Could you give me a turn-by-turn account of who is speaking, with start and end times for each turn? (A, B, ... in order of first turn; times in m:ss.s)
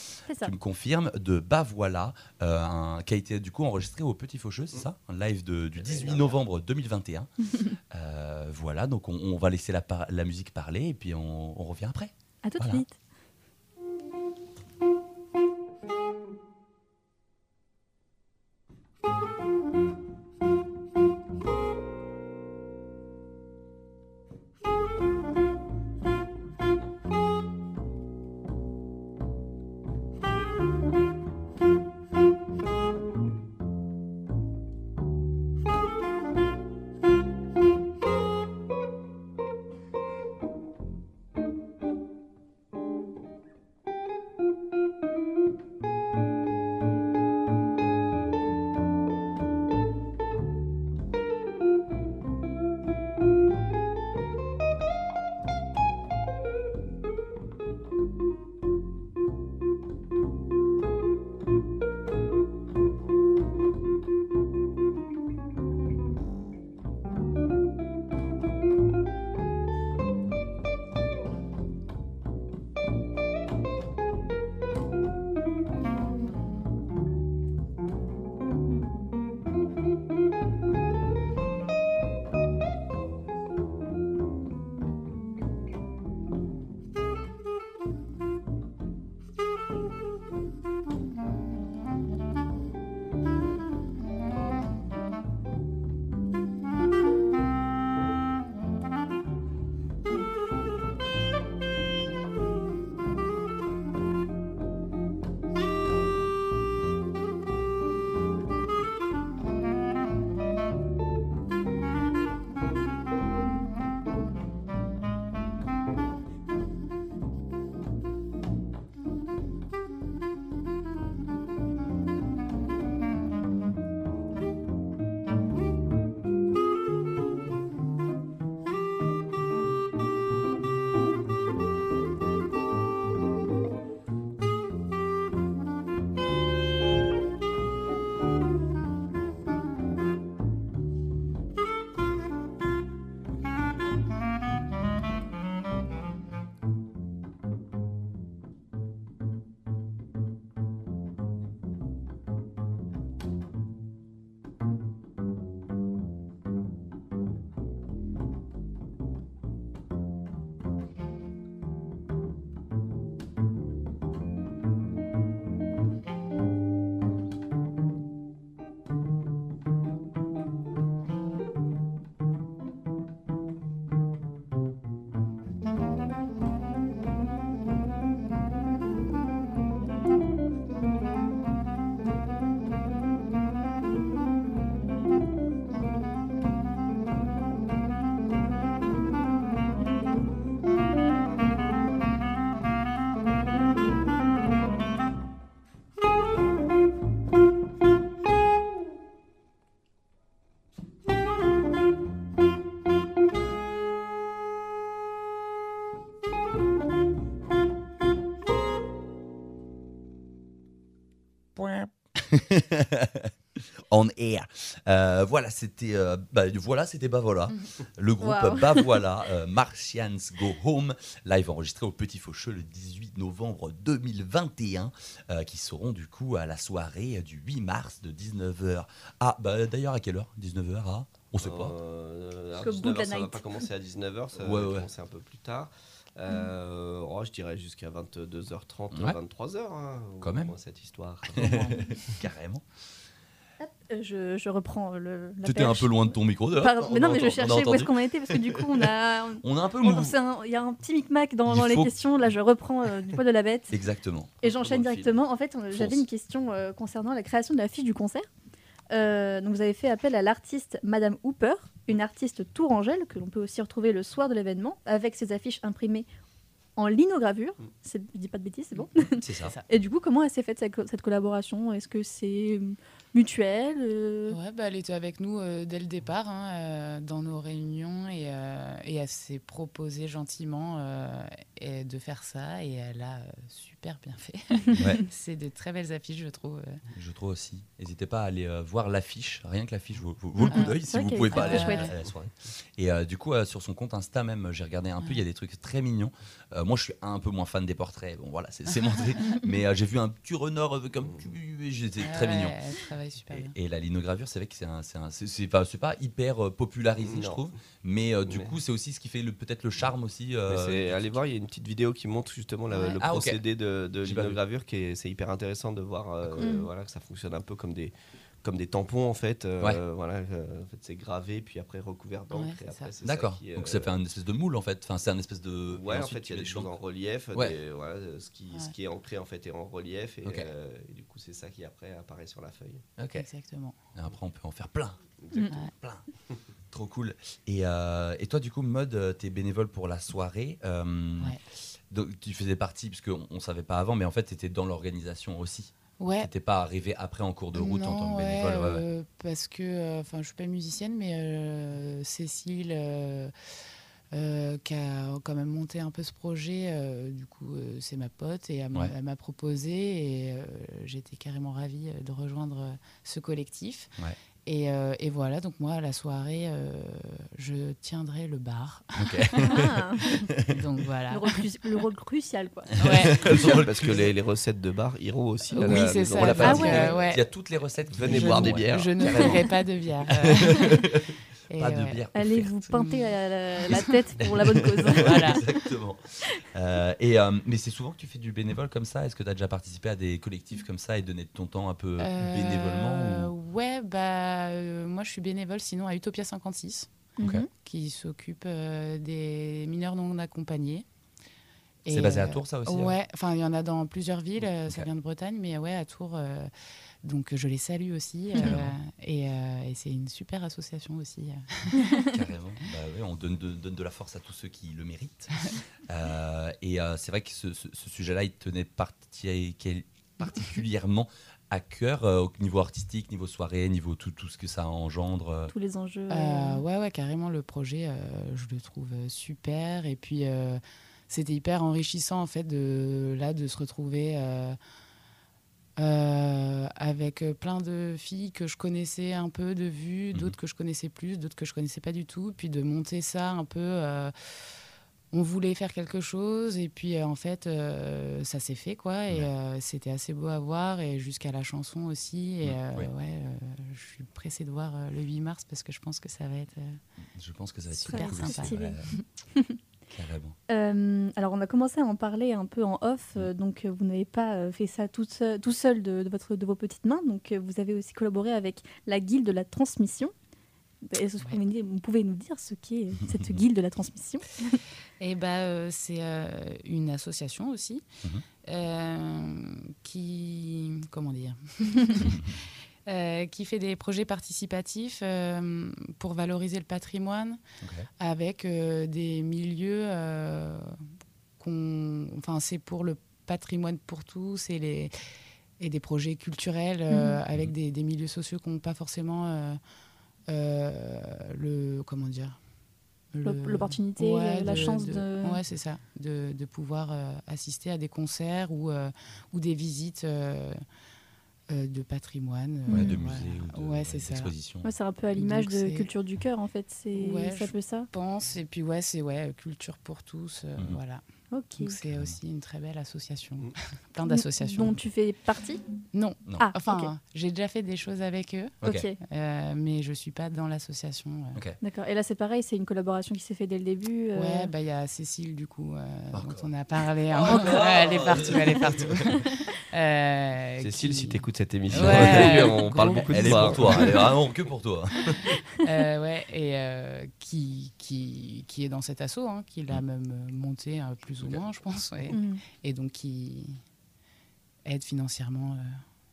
0:00.3-0:00.5 A
0:00.4-0:07.3 B
0:05.8-0:06.4 C
0:07.9-0:12.8 B
0:12.4-0:12.9 A
3:31.6-3:51.8 B
3:38.2-3:39.0 A
3:51.4-4:01.9 C
3:52.6-3:53.4 A
3:54.4-3:54.9 B
4:00.2-4:00.6 B
4:01.4-4:02.6 B
4:03.6-4:13.7 A
4:05.4-4:08.9 B
4:09.4-4:10.2 B
4:11.5-4:12.0 B
4:13.7-4:14.4 B
4:14.4-4:15.1 C
4:14.4-4:18.3 A
4:18.9-4:26.1 A
4:26.8-4:34.4 A
4:29.2-4:29.5 B
4:34.3-4:46.8 D
4:44.8-4:45.0 B
4:46.9-5:02.6 B
4:50.4-4:51.9 A
4:51.3-4:51.9 D
5:02.0-5:03.5 D
5:03.3-5:11.2 B
5:07.0-5:07.5 C
5:08.3-5:08.5 C
5:10.5-5:23.9 C
5:12.7-5:13.0 D
5:13.0-5:13.4 B
5:14.0-5:14.4 B
5:16.2-5:16.5 B
5:16.4-5:16.7 A
5:22.3-5:22.9 D
5:23.0-5:26.8 B
5:25.7-5:32.8 C
5:30.2-5:30.5 B
5:33.0-5:33.3 B
5:33.2-5:33.8 D
5:33.9-5:35.1 B
5:35.2-5:35.5 C
5:35.8-5:36.0 B
5:36.7-5:41.4 B
5:41.9-5:48.8 B
5:46.0-5:46.3 D
5:47.6-5:53.3 D
5:54.1-6:03.9 D
6:04.4-6:09.5 D
6:09.0-6:10.5 B
6:09.4-6:10.3 A
6:10.5-6:11.4 D
6:11.1-6:12.7 A
6:12.8-6:13.2 D
6:12.8-6:14.1 B
6:13.2-6:17.1 C
6:15.6-6:17.2 D
6:15.6-6:19.4 B
6:16.4-6:16.9 A
6:17.9-6:18.9 C
6:18.1-6:20.9 D
6:20.2-6:22.6 B
6:21.5-6:22.0 D
6:22.2-6:25.4 A
6:22.7-6:23.1 D
6:24.2-6:26.0 B
6:25.0-6:25.4 D
6:26.5-6:33.3 B
6:32.0-6:36.9 D
6:37.2-6:37.5 A
6:37.2-6:37.5 B
6:37.6-6:40.9 D
6:41.8-6:46.5 D
6:41.9-6:43.0 B
6:47.0-6:52.0 D
6:48.4-6:48.8 B
6:52.1-7:05.5 B
7:05.5-7:06.6 A
7:06.1-7:14.6 D
7:15.8-7:24.1 D
7:25.1-7:36.8 D
7:32.4-7:32.9 B
7:37.2-7:38.9 B
7:37.7-7:38.5 D
7:37.9-7:38.8 A
7:39.9-7:40.4 B
7:40.5-7:50.1 A
7:50.9-7:54.6 A
7:53.1-7:53.4 B
7:55.0-7:57.9 D
7:58.4-8:02.2 D
8:02.0-8:02.3 B
8:02.9-8:07.4 D
8:07.6-8:07.9 B
8:08.0-8:10.7 D
8:11.4-8:14.9 D
8:15.6-8:19.6 D
8:16.9-8:17.2 A
8:20.3-8:22.4 D
8:23.1-8:30.6 D
8:23.2-8:25.4 A
8:31.5-8:34.3 D
8:32.7-8:33.0 A
8:32.7-8:34.7 B
8:34.6-8:37.9 A
8:35.2-8:35.9 D
8:37.0-8:41.0 D
8:41.3-8:41.8 A
8:41.6-8:44.8 D
8:41.9-8:42.2 B
8:44.1-8:45.6 A
8:45.9-8:48.6 D
8:46.4-8:46.9 A
8:48.6-8:48.9 B
8:48.6-8:49.0 A
8:49.1-8:51.4 D
8:51.6-8:54.5 A
8:54.2-9:01.2 D
8:56.1-8:56.5 B
8:57.1-8:59.2 B
9:00.6-9:03.8 C
9:01.7-9:05.2 B
9:01.8-9:04.0 D
9:05.6-9:13.6 D
9:11.2-9:11.5 B
9:12.1-9:12.4 A
9:14.7-9:15.8 D